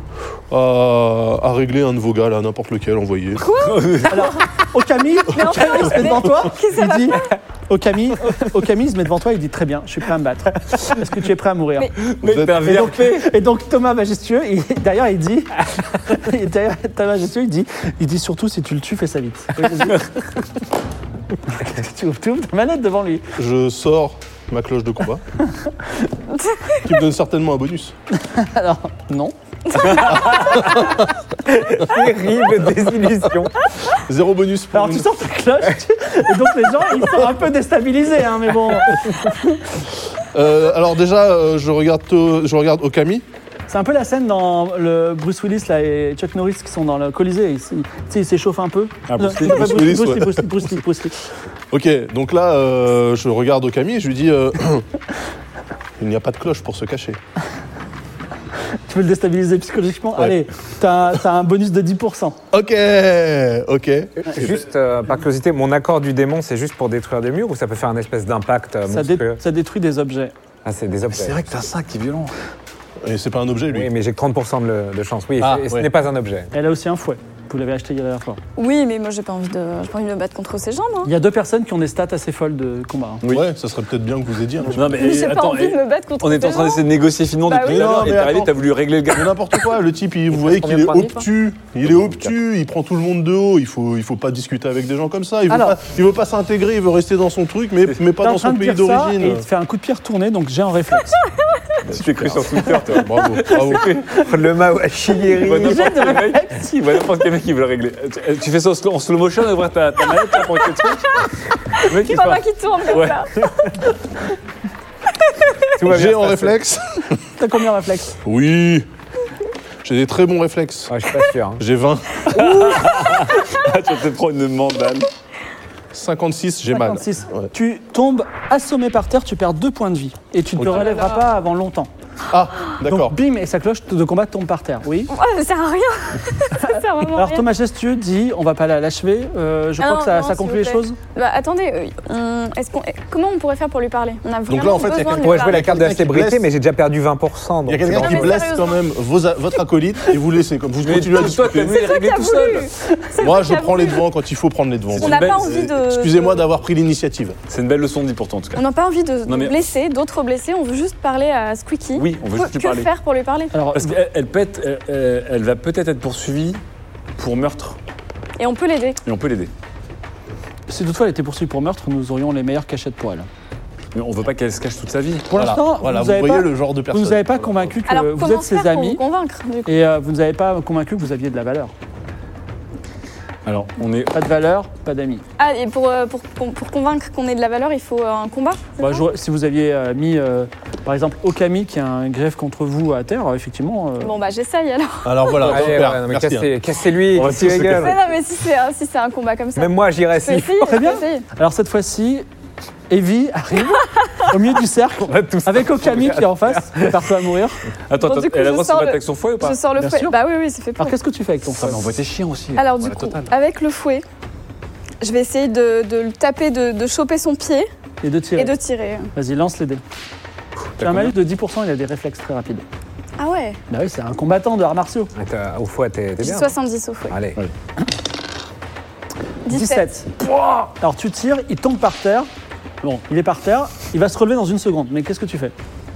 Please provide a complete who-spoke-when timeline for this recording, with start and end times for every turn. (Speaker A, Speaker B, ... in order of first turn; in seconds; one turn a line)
Speaker A: 0.5-3.5
Speaker B: 3.4-4.5
Speaker C: 3.5-4.4
Speaker D: 4.1-11.9
Speaker B: 5.2-7.3
Speaker C: 12.0-13.3
Speaker A: 12.2-12.7
Speaker D: 12.6-20.1
Speaker D: 21.5-23.3
Speaker A: 23.4-25.2
Speaker B: 26.3-26.9
Speaker A: 26.8-27.9
Speaker D: 28.2-29.9
Speaker B: 29.7-30.7
Speaker E: 31.4-33.5
Speaker A: 34.1-35.2
Speaker D: 34.7-39.1
Speaker A: 40.3-43.2
Speaker D: 43.7-51.2
Speaker C: 49.1-49.9
Speaker A: 49.4-50.6
Speaker A: 51.7-54.9
Speaker A: 56.0-57.2
Speaker D: 58.9-62.4
Speaker A: 60.1-60.5
Speaker A: 62.5-64.2
Speaker E: 64.2-69.4
Speaker D: 68.9-70.3
Speaker E: 70.6-71.4
Speaker C: 71.1-72.3
Speaker A: 73.0-73.9
Speaker E: 73.7-76.5
Speaker A: 75.4-75.9
Speaker D: 76.5-78.4
Speaker B: 78.5-81.1
Speaker D: 81.0-83.2
Speaker C: 83.2-83.5
Speaker A: 83.3-85.2
Speaker C: 84.7-89.4
Speaker B: 84.9-86.9
Speaker B: 87.4-88.2
Speaker A: 87.6-88.5
Speaker A: 89.1-99.5
Speaker E: 90.4-91.2
Speaker D: 95.5-95.8
Speaker D: 98.2-101.2
Speaker C: 101.8-104.0
Speaker E: 102.0-103.0
Speaker A: 102.9-104.0
Speaker E: 104.0-106.1
Speaker C: 105.2-113.5
Speaker D: 105.4-106.8
Speaker B: 111.8-113.5
Speaker B: 115.2-115.7
Speaker E: 115.8-116.6
Speaker A: 115.9-117.2
Speaker D: 117.4-118.2
Speaker A: 118.2-118.9
Speaker A: 119.8-120.9
Speaker E: 120.9-121.6
Speaker A: 121.6-122.7
Speaker C: 122.3-125.1
Speaker A: 125.9-127.5
Speaker D: 126.7-131.9
Speaker A: 130.6-130.9
Speaker B: 130.7-131.3
Speaker A: 132.3-133.2
Speaker D: 132.9-135.1
Speaker B: 135.1-137.4
Speaker D: 136.7-141.0
Speaker B: 139.8-145.7
Speaker A: 144.5-146.5
Speaker E: 145.1-148.4
Speaker A: 147.7-151.8
Speaker B: 147.9-148.8
Speaker C: 150.8-152.7
Speaker B: 151.7-154.1
Speaker A: 153.2-157.3
Speaker C: 154.9-155.7
Speaker B: 155.0-156.5
Speaker C: 157.5-158.6
Speaker B: 158.5-163.5
Speaker C: 159.3-159.6
Speaker C: 161.9-162.9
Speaker D: 163.5-164.0
Speaker C: 163.7-166.6
Speaker C: 167.2-167.8
Speaker B: 168.4-169.0
Speaker C: 169.0-169.5
Speaker D: 170.7-173.3
Speaker C: 173.9-175.3
Speaker D: 175.3-179.0
Speaker A: 175.3-177.7
Speaker B: 177.9-179.7
Speaker D: 179.7-181.7
Speaker C: 183.4-184.1
Speaker D: 184.1-185.2
Speaker B: 185.4-189.0
Speaker D: 188.8-194.1
Speaker B: 194.0-195.6
Speaker A: 195.0-196.5
Speaker E: 195.4-198.0
Speaker C: 197.2-197.9
Speaker B: 197.7-201.2
Speaker E: 199.6-200.7
Speaker D: 200.6-202.2
Speaker D: 202.9-207.6
Speaker B: 203.7-204.3
Speaker E: 205.0-207.0
Speaker C: 207.9-209.6
Speaker B: 208.0-210.9
Speaker D: 209.8-210.2
Speaker D: 210.8-211.8
Speaker C: 211.6-213.3
Speaker B: 212.5-214.0
Speaker B: 215.0-217.7
Speaker D: 218.0-218.5
Speaker B: 218.3-219.1
Speaker D: 219.1-219.8
Speaker C: 220.8-221.1
Speaker D: 220.8-222.6
Speaker B: 223.2-223.6
Speaker D: 223.7-225.1
Speaker E: 225.1-226.5
Speaker B: 226.2-227.2
Speaker E: 227.1-227.4
Speaker B: 229.4-229.9
Speaker D: 229.5-232.3
Speaker D: 232.8-235.5